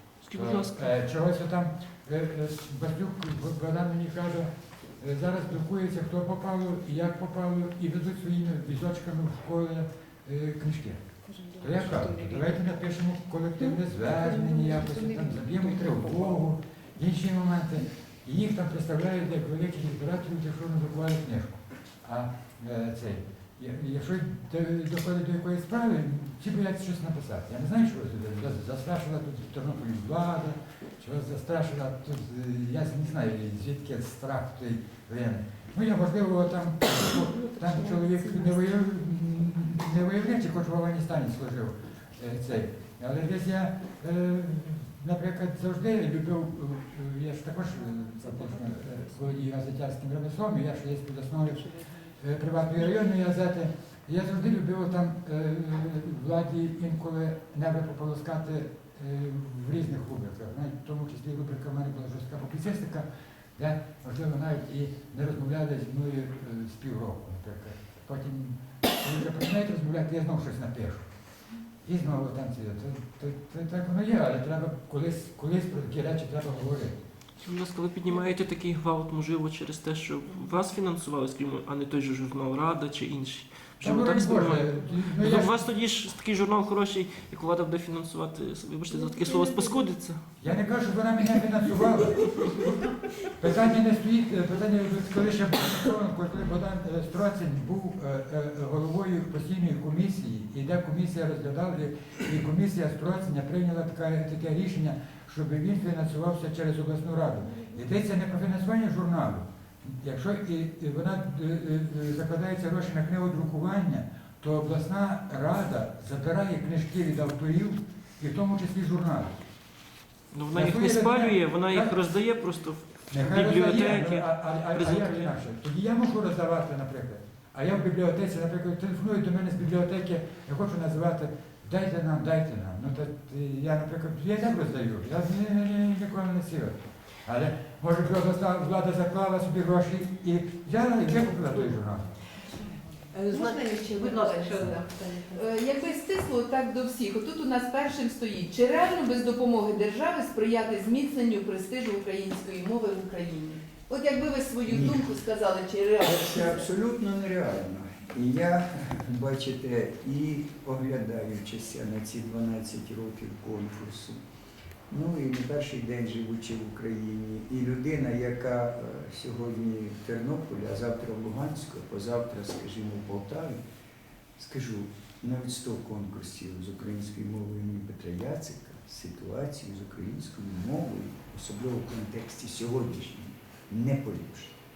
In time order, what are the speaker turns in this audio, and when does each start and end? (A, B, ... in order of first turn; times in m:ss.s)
0:00.2-0:00.9 A
0:00.3-1:11.1 B
0:11.3-0:12.4 C
0:14.4-0:16.2 C
1:11.8-1:17.0 B
1:17.4-1:30.3 A
1:23.8-1:25.6 B
1:30.4-1:59.4 B
2:00.3-2:05.3 A
2:00.5-2:01.9 B
2:03.1-2:22.1 B
2:23.1-2:25.4 C
2:23.3-2:36.6 D
2:34.7-2:35.0 E
2:36.0-2:44.2 E
2:44.9-2:53.6 E
2:54.4-3:04.6 E